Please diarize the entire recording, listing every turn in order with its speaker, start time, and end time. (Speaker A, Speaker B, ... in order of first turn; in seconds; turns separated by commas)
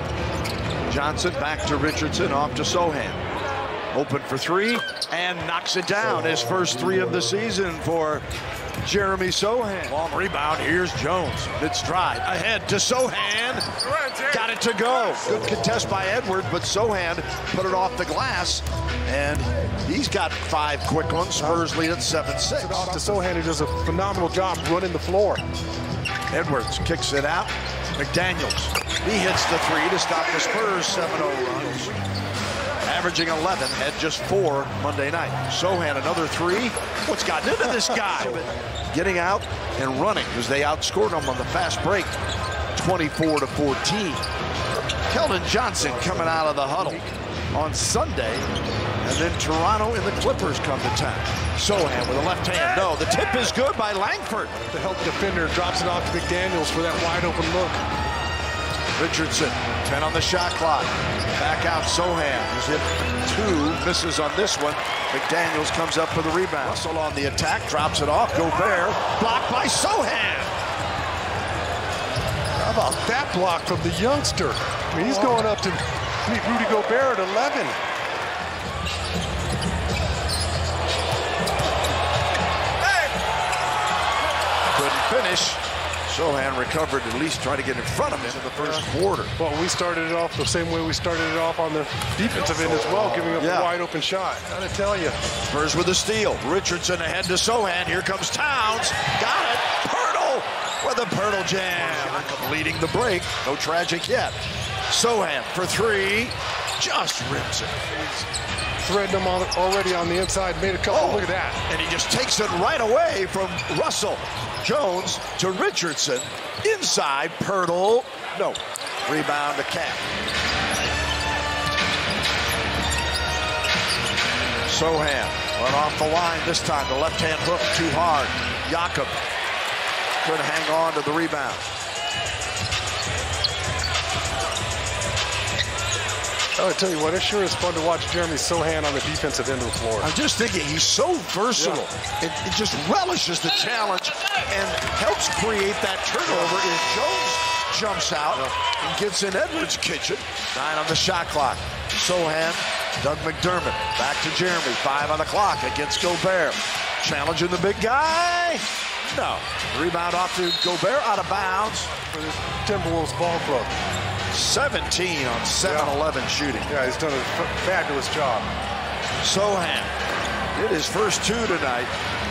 Speaker A: 0.9-3.2, Speaker A: 3.9-8.2, Speaker A: 8.8-13.6, Speaker A: 14.2-23.0, Speaker B: 21.4-21.7, Speaker B: 22.6-25.4, Speaker A: 26.3-32.0, Speaker A: 32.8-42.1, Speaker A: 42.7-44.2, Speaker A: 45.1-48.5, Speaker A: 49.0-54.5, Speaker B: 54.7-57.8, Speaker A: 59.0-70.5, Speaker B: 72.6-77.8, Speaker A: 84.7-89.3, Speaker B: 88.5-88.8, Speaker B: 89.4-95.2, Speaker A: 93.0-93.7, Speaker A: 95.5-104.3, Speaker B: 101.8-102.2, Speaker A: 104.9-108.1, Speaker B: 108.8-111.6, Speaker A: 110.9-120.0, Speaker A: 124.7-129.2, Speaker A: 130.2-131.6, Speaker B: 136.6-140.1, Speaker A: 140.0-161.9, Speaker B: 141.6-141.8, Speaker B: 146.3-146.6, Speaker B: 162.1-163.7, Speaker A: 164.3-166.7, Speaker B: 165.6-165.9, Speaker B: 166.7-168.5, Speaker A: 169.2-169.9, Speaker A: 170.5-171.9